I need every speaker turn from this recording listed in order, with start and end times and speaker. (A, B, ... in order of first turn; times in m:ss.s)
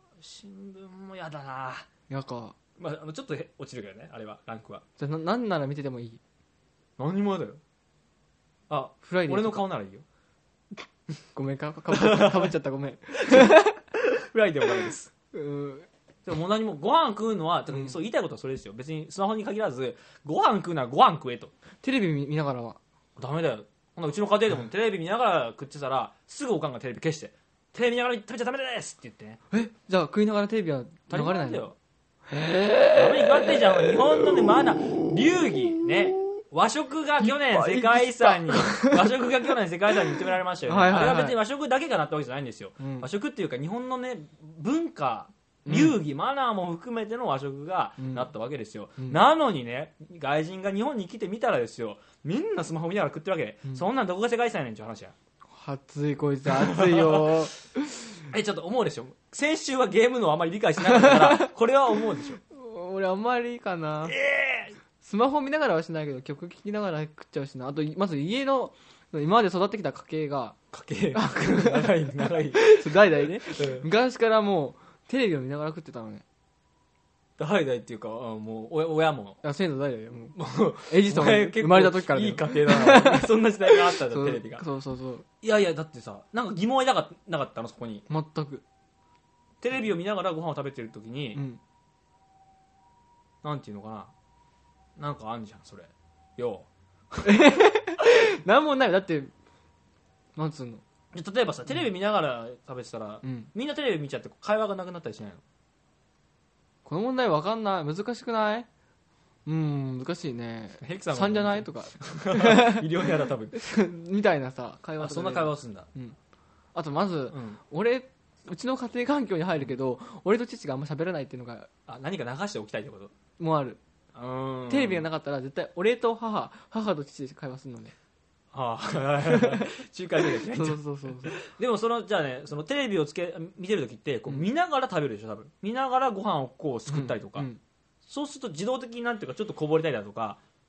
0:00.2-0:01.9 A
0:02.1-0:02.6 B
0:02.8-0:04.8 A
0:05.0-0:06.2 B
0:07.0-0:07.6 A
0:08.7-0:10.0 A
0:09.0-0:09.6 B
0:11.3-0:13.8 B
0:11.9-0:12.5 A
0:13.1-0:15.1 A
0:15.3-0:15.9 B
0:16.2-0:21.5 A
0:21.8-0:22.8 B
0:23.2-0:29.4 A
0:29.5-0:31.6 B
0:31.1-0:31.8 A
0:32.3-0:34.5 B
0:32.9-0:55.1 A
0:37.2-0:39.1 B
0:40.2-0:41.4 B
0:42.8-0:43.1 B
0:45.6-0:46.0 B
0:48.0-0:48.3 B
0:55.5-0:58.1 B
0:56.6-0:57.4 A
0:58.3-1:02.4 A
1:00.8-1:01.5 B
1:02.5-1:04.2 B
1:04.0-1:04.8 A
1:05.0-1:10.6 B
1:10.7-1:13.9 A
1:11.1-1:16.2 B
1:17.4-1:19.4 A
1:19.4-1:20.3 B
1:20.3-1:24.6 A
1:20.9-1:25.2 B
1:25.4-1:28.1 A
1:28.1-1:28.6 B
1:29.6-1:31.4 A
1:31.3-1:31.6 B
1:33.4-1:34.1 A
1:35.0-1:37.4 A
1:37.2-1:39.3 B
1:40.4-1:40.8 B
1:41.1-1:45.4 A
1:43.2-1:43.5 B
1:46.8-1:48.7 B
1:49.4-1:52.9 B
1:50.8-1:53.6 A
1:53.5-1:56.2 B
1:55.0-1:55.9 A
1:56.7-2:01.7 B
1:57.3-1:57.6 A
2:01.9-2:03.1 A
2:03.4-2:03.8 B
2:04.1-2:05.0 A
2:04.7-2:07.9 B
2:08.5-2:17.5 A
2:09.2-2:09.7 B
2:10.2-2:11.3 B
2:16.9-2:17.6 B
2:18.0-2:20.4 A